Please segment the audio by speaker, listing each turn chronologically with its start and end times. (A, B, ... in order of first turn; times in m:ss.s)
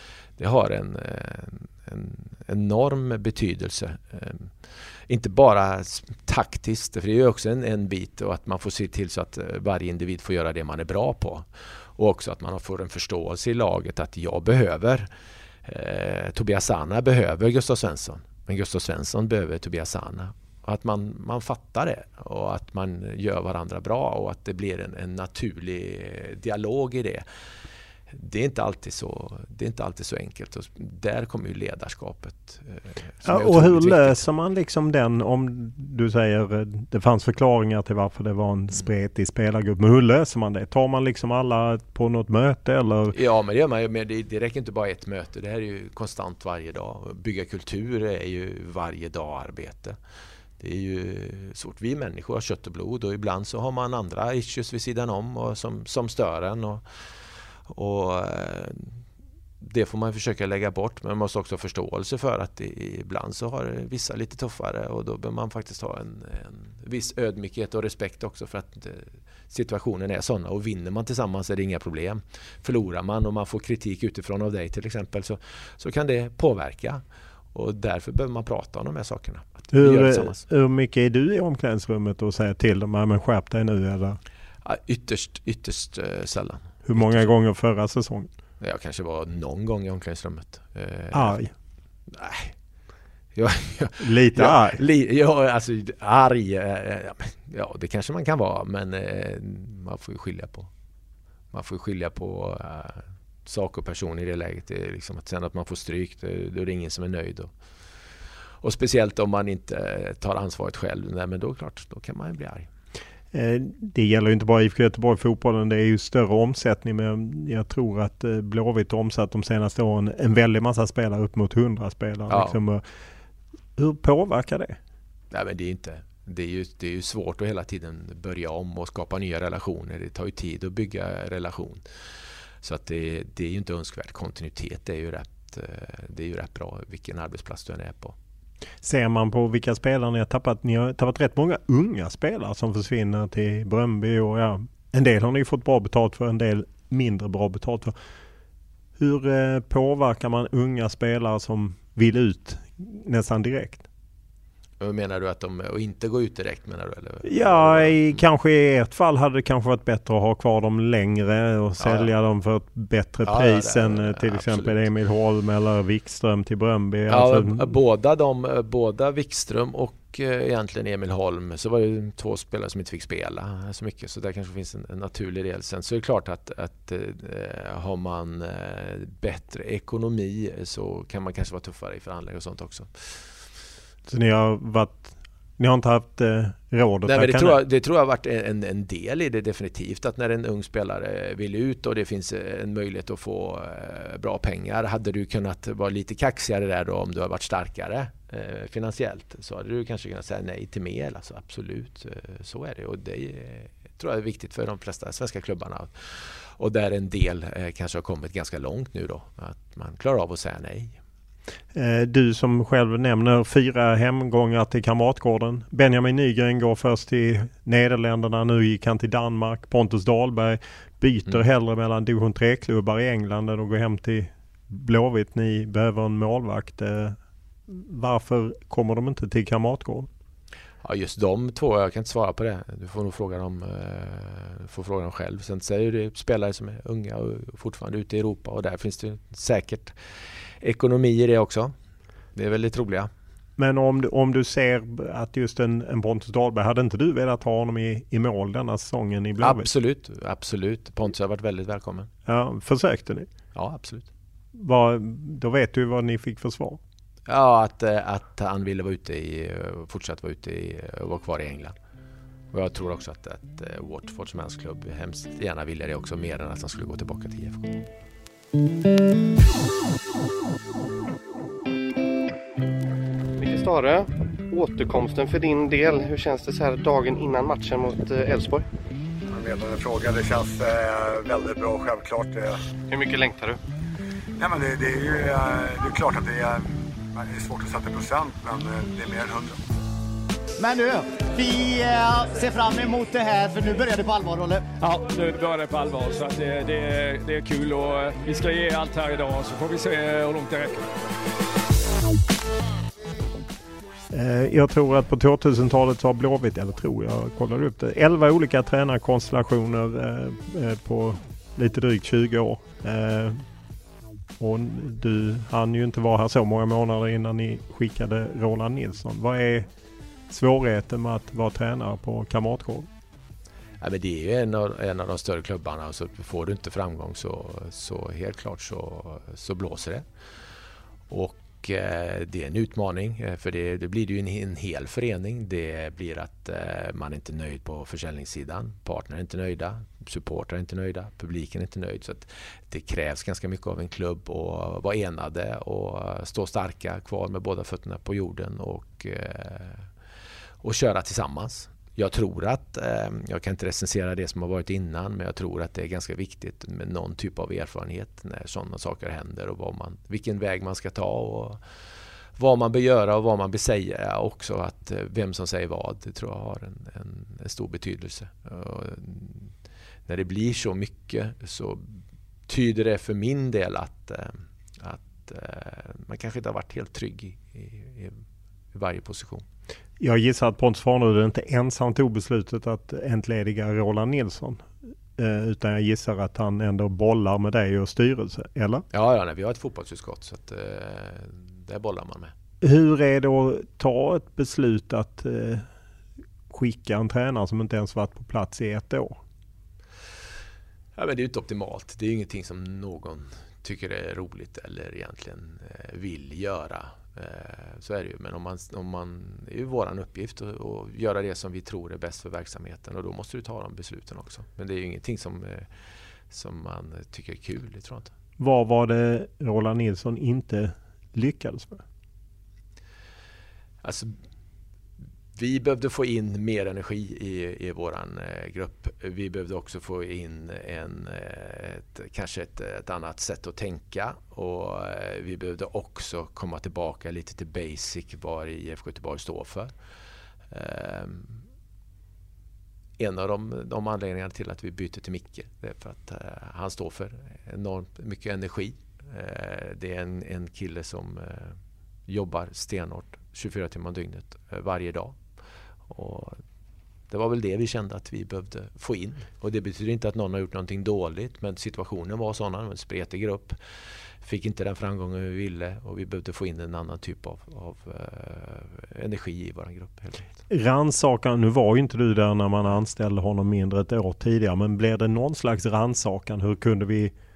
0:00.4-0:15.1 A
0:15.6-0:27.3 A
0:28.1-0:34.2 A
0:33.3-0:43.2 B
0:43.1-0:50.0 A
0:50.6-0:56.9 A
0:57.7-0:59.0 A
0:59.6-1:20.4 A
1:19.7-1:24.2 B
1:24.6-1:27.3 A
1:26.8-1:28.3 B
1:28.6-1:31.4 A
1:31.1-1:31.5 B
1:32.1-1:32.6 A
1:33.4-1:40.7 A
1:34.0-1:34.8 B
1:41.5-1:47.5 A
1:48.6-1:52.7 A
1:53.3-2:02.8 B
2:02.3-2:02.6 A
2:03.8-2:04.8 B
2:05.3-2:11.8 A
2:12.6-2:18.2 A
2:18.8-2:28.0 B
2:29.0-2:33.9 B
2:34.8-2:38.2 A
2:37.2-2:47.7 B
2:41.8-2:42.1 A
2:43.2-2:44.8 A
2:47.1-3:03.3 A
3:04.1-3:07.6 B
3:07.0-3:31.0 A
3:31.7-3:47.2 B
3:47.7-3:50.1 B
3:50.8-4:00.0 A
4:00.6-4:01.7 A
4:02.4-4:03.1 A
4:03.6-4:09.7 B
4:09.4-4:12.1 A
4:12.3-4:13.3 B
4:13.6-4:14.1 A
4:14.5-4:16.8 B
4:17.3-4:21.8 A
4:22.5-4:27.8 A
4:33.4-4:38.7 C
4:39.3-4:42.6 D
4:42.9-4:43.6 C
4:44.4-4:49.6 D
4:50.6-4:54.8 E
4:54.8-5:00.9 F
5:04.1-5:13.4 B
5:14.4-5:19.7 B
5:20.3-5:22.9 B
5:23.8-5:30.1 A
5:31.1-5:49.9 A
5:50.6-6:01.6 A
6:02.4-6:09.5 A
6:10.1-6:18.2 A
6:18.7-6:19.4 A
6:20.0-6:28.8 B
6:28.9-6:32.3 A
6:32.6-6:35.7 B
6:36.5-6:39.2 B
6:41.0-6:55.7 A
6:56.3-6:58.1 A
6:58.4-7:01.8 B
7:03.8-7:04.1 A
7:05.3-7:19.7 A
7:20.5-7:21.4 A
7:23.0-7:35.2 A
7:35.9-7:36.4 A
7:37.1-7:43.6 A
7:44.2-7:50.3 A
7:50.5-7:57.1 B